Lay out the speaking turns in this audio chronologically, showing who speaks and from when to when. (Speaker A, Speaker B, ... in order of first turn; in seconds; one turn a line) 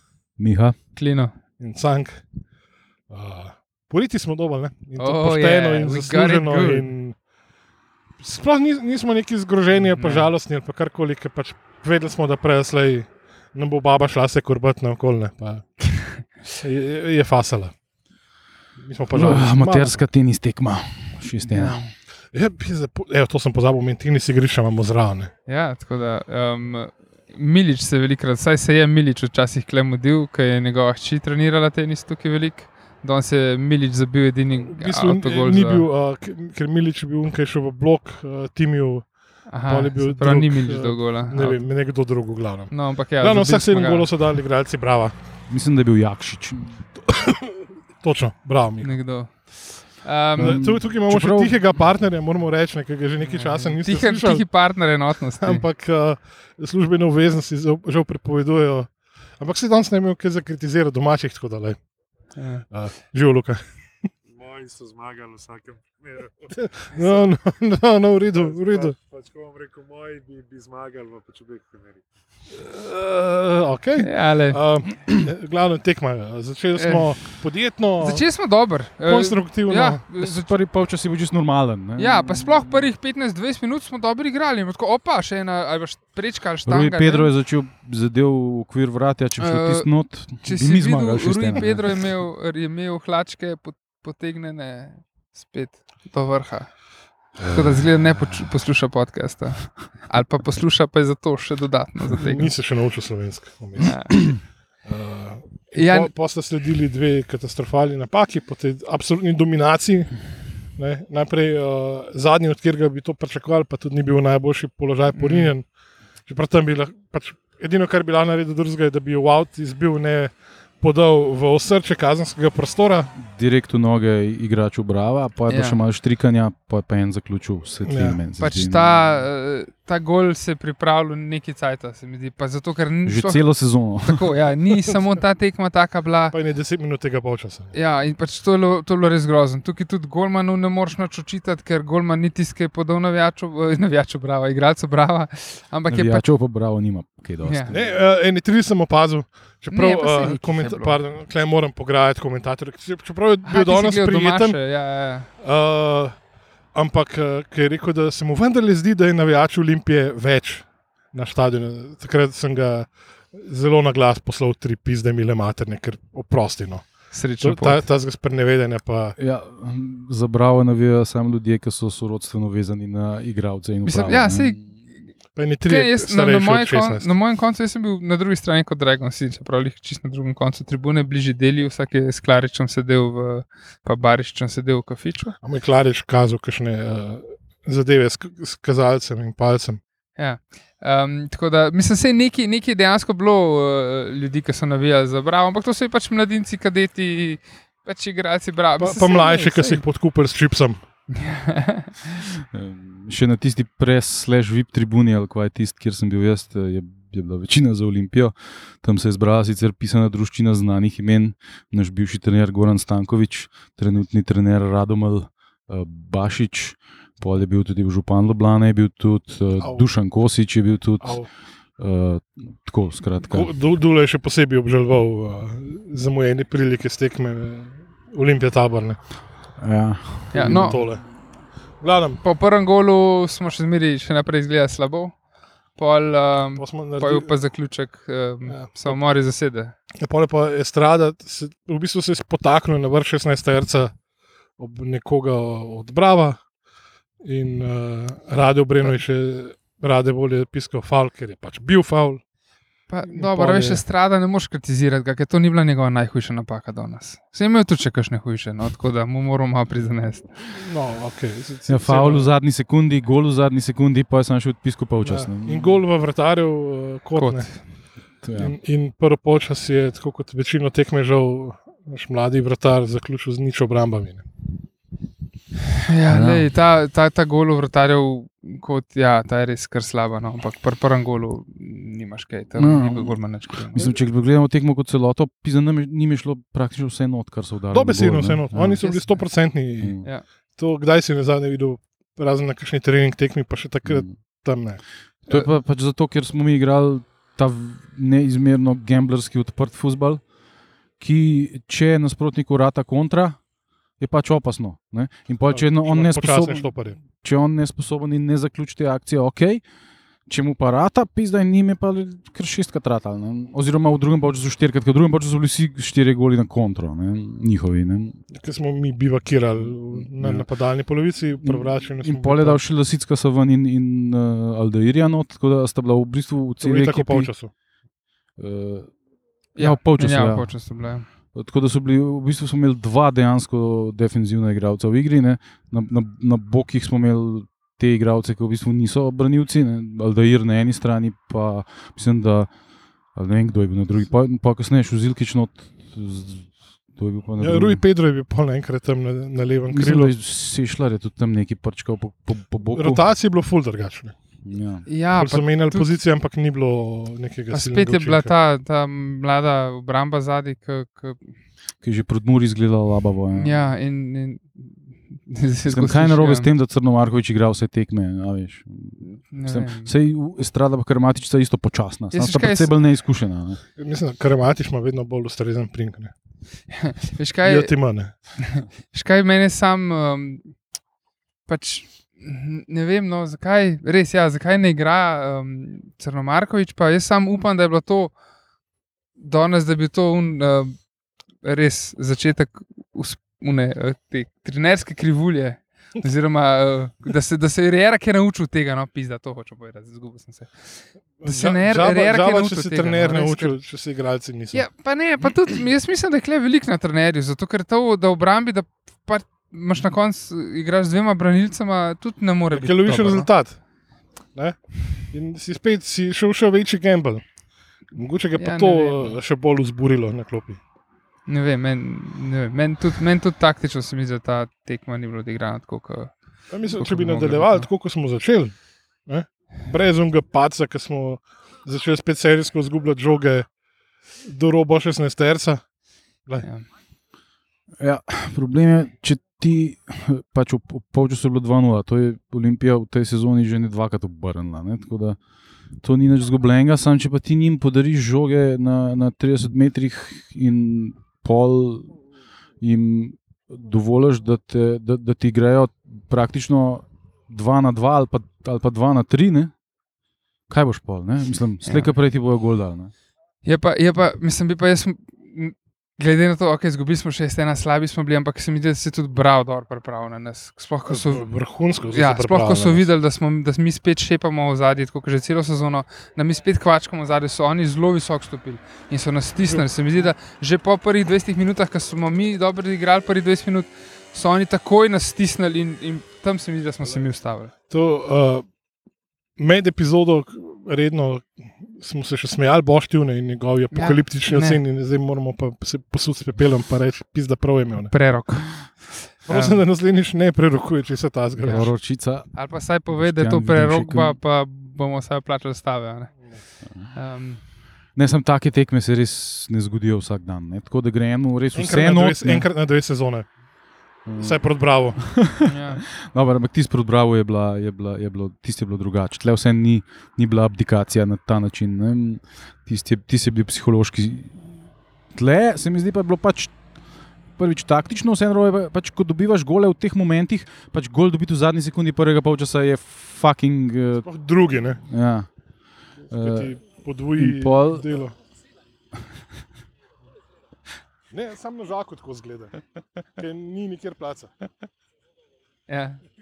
Speaker A: 0.4-0.8
Speaker B: 1.0-1.3
Speaker C: 1.6-2.2
Speaker C: 3.1-7.2
Speaker B: 5.0-6.9
Speaker C: 8.2-15.7
Speaker B: 9.8-10.3
Speaker C: 16.5-17.7
Speaker C: 18.8-20.0
Speaker A: 19.1-21.8
Speaker B: 21.5-21.9
Speaker C: 22.3-25.3
Speaker B: 25.5-35.9
Speaker C: 34.6-39.1
Speaker B: 39.5-41.6
Speaker C: 39.6-45.1
Speaker B: 42.7-44.1
Speaker A: 45.5-46.8
Speaker C: 47.1-48.9
Speaker B: 48.8-50.6
Speaker A: 50.4-51.6
Speaker C: 50.4-54.5
Speaker B: 53.2-55.6
Speaker C: 55.4-61.8
Speaker B: 62.4-62.7
Speaker C: 62.7-63.6
Speaker D: 64.3-66.5
Speaker C: 66.5-69.0
Speaker D: 68.6-72.0
Speaker C: 72.5-78.3
Speaker B: 74.0-74.6
Speaker B: 76.8-77.3
Speaker B: 78.0-80.5
Speaker C: 79.0-80.0
Speaker A: 80.2-82.9
Speaker B: 82.0-87.3
Speaker A: 86.7-92.0
Speaker B: 89.4-96.7
Speaker B: 97.4-102.5
Speaker C: 102.2-110.1
Speaker B: 103.8-104.2
Speaker B: 105.8-106.1
Speaker C: 110.8-115.7
Speaker B: 115.1-115.5
Speaker C: 116.3-123.1
Speaker A: 123.2-129.0
Speaker B: 125.5-125.8
Speaker C: 127.8-128.2
Speaker B: 128.4-136.3
Speaker A: 133.1-134.3
Speaker C: 136.3-137.7
Speaker B: 137.7-146.2
Speaker A: 145.9-148.0
Speaker B: 147.4-147.7
Speaker C: 147.7-154.6
Speaker B: 149.7-151.0
Speaker B: 153.4-155.3
Speaker C: 155.4-156.2
Speaker C: 156.7-166.9
Speaker B: 167.1-167.8
Speaker C: 167.4-169.2
Speaker A: 169.2-174.6
Speaker B: 173.8-174.8
Speaker C: 175.3-177.1
Speaker B: 175.7-185.4
Speaker C: 185.4-189.8
Speaker B: 190.2-199.8
Speaker C: 198.8-200.8
Speaker B: 201.2-201.9
Speaker A: 202.2-221.2
Speaker C: 219.6-219.9
Speaker C: 221.0-221.3
Speaker A: 221.8-223.5
Speaker C: 223.3-229.0
Speaker A: 229.6-230.8
Speaker B: 230.3-230.8
Speaker C: 230.4-231.0
Speaker C: 231.8-232.2
Speaker B: 232.2-235.2
Speaker B: 235.8-239.7
Speaker C: 236.6-237.3
Speaker C: 238.5-239.0
Speaker C: 240.0-243.9
Speaker C: 244.6-246.4
Speaker C: 247.2-252.2
Speaker B: 252.9-260.3
Speaker C: 253.1-253.8
Speaker C: 260.4-262.3
Speaker A: 261.7-265.8
Speaker C: 265.0-267.5
Speaker B: 267.2-267.6
Speaker A: 268.2-268.6
Speaker C: 268.4-274.2
Speaker B: 275.8-283.9
Speaker A: 276.1-276.5
Speaker A: 282.6-288.8
Speaker C: 287.7-290.0
Speaker B: 288.8-289.3
Speaker A: 289.8-290.1
Speaker C: 290.6-294.8
Speaker A: 293.9-294.1
Speaker A: 295.3-300.2
Speaker A: 301.0-303.4
Speaker A: 304.0-309.6
Speaker C: 305.5-307.0
Speaker A: 310.3-318.1
Speaker C: 318.3-322.6
Speaker A: 320.0-320.5
Speaker A: 321.4-327.3
Speaker C: 326.6-327.5
Speaker A: 328.4-328.9
Speaker B: 329.6-331.1
Speaker A: 329.6-330.5
Speaker A: 331.3-342.5
Speaker A: 343.1-347.8
Speaker C: 347.4-350.1
Speaker A: 349.7-353.0
Speaker C: 352.7-354.1
Speaker A: 354.4-354.9
Speaker B: 354.9-355.9
Speaker C: 355.1-358.3
Speaker B: 357.5-361.2
Speaker A: 361.8-363.7
Speaker B: 363.3-364.7
Speaker B: 365.3-366.5
Speaker A: 365.7-373.6
Speaker B: 369.3-369.9
Speaker B: 372.1-372.7
Speaker C: 373.8-376.1
Speaker B: 376.7-377.7
Speaker C: 377.4-378.1
Speaker B: 378.6-380.5
Speaker B: 381.5-388.1
Speaker B: 389.2-390.8
Speaker B: 391.4-403.6
Speaker C: 401.2-404.6
Speaker B: 404.5-413.3
Speaker C: 412.5-413.6
Speaker C: 414.3-417.2
Speaker C: 417.9-420.6
Speaker B: 418.4-419.2
Speaker B: 421.3-426.1
Speaker C: 426.5-428.5
Speaker B: 426.7-427.7
Speaker C: 429.1-433.5
Speaker C: 434.2-435.6
Speaker A: 437.8-445.2
Speaker A: 445.8-451.9
Speaker A: 452.6-459.5
Speaker A: 460.5-462.9
Speaker B: 461.6-461.9
Speaker B: 463.4-471.2
Speaker C: 470.9-472.9
Speaker B: 471.9-487.5
Speaker C: 479.4-480.1
Speaker C: 487.7-488.5
Speaker C: 489.4-497.9
Speaker B: 493.7-494.6
Speaker B: 497.9-499.6
Speaker C: 499.3-501.7
Speaker A: 501.4-504.2
Speaker B: 502.3-506.3
Speaker B: 506.9-507.4
Speaker A: 508.0-512.5
Speaker C: 511.5-513.3
Speaker A: 514.1-514.4
Speaker C: 514.2-515.0
Speaker A: 515.0-524.6
Speaker B: 515.4-515.9
Speaker A: 525.1-526.6
Speaker A: 527.4-534.1
Speaker C: 534.0-534.8
Speaker A: 534.8-535.3
Speaker A: 536.1-536.5
Speaker C: 536.1-538.1
Speaker A: 537.2-537.9
Speaker C: 541.1-542.6
Speaker C: 543.1-544.3
Speaker B: 545.7-546.0